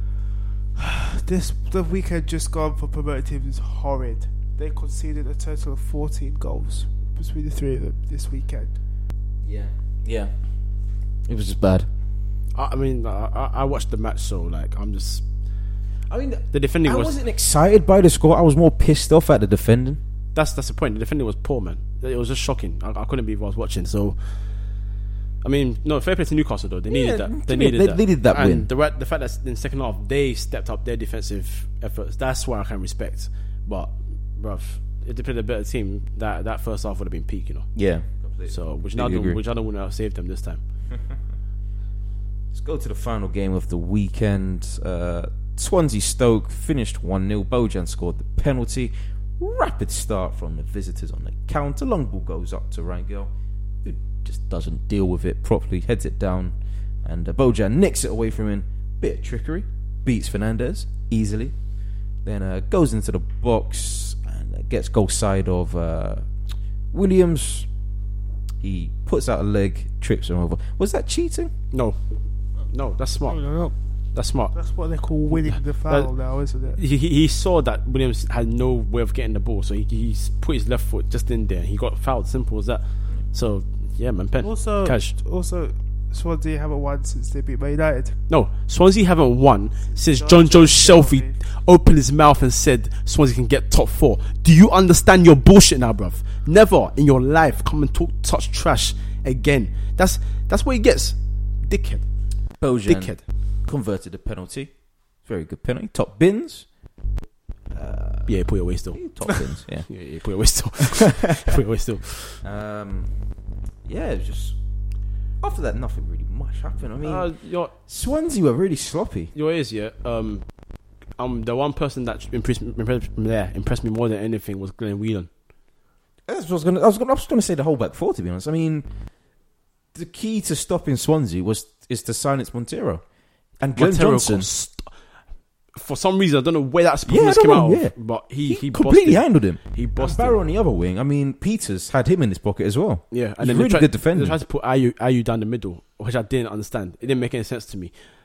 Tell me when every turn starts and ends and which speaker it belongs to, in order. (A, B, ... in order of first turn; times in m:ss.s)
0:00.8-0:08.8 A
0:09.4-0:10.3 B
0:11.3-0:11.9 B
0:12.6-0:15.2 C
0:16.1-0:20.0 B
0:16.5-0:17.2 C
0:20.4-0:24.2 C
0:25.4-0:37.7 C
0:26.9-0:28.7 B
0:37.8-0:39.4 B
0:38.5-0:40.6 C
0:42.5-0:53.3 B
0:53.8-1:01.6 B
1:02.2-1:06.3 B
1:06.9-1:07.7 B
1:08.6-1:11.5 B
1:11.7-1:12.0 C
1:12.7-1:13.4 C
1:13.3-1:13.7 A
1:14.2-1:14.5 C
1:14.5-1:16.8 A
1:15.3-1:16.1 C
1:16.7-1:25.2 C
1:24.4-1:28.2 A
1:28.3-1:42.1 C
1:29.9-1:31.4 A
1:42.6-1:46.7 B
1:42.8-1:43.3 C
1:47.7-1:49.9 B
1:48.3-1:49.1 C
1:49.9-1:52.4 C
1:52.4-1:53.3 B
1:53.8-1:54.6 B
1:55.4-1:59.3 B
1:57.0-1:57.7 C
1:59.3-2:00.5 C
2:01.1-2:05.3 C
2:06.3-2:08.9 B
2:09.9-2:13.0 B
2:13.6-2:14.5 B
2:13.8-2:14.9 C
2:15.7-2:20.4 C
2:17.1-2:24.4 B
2:23.1-2:28.0 C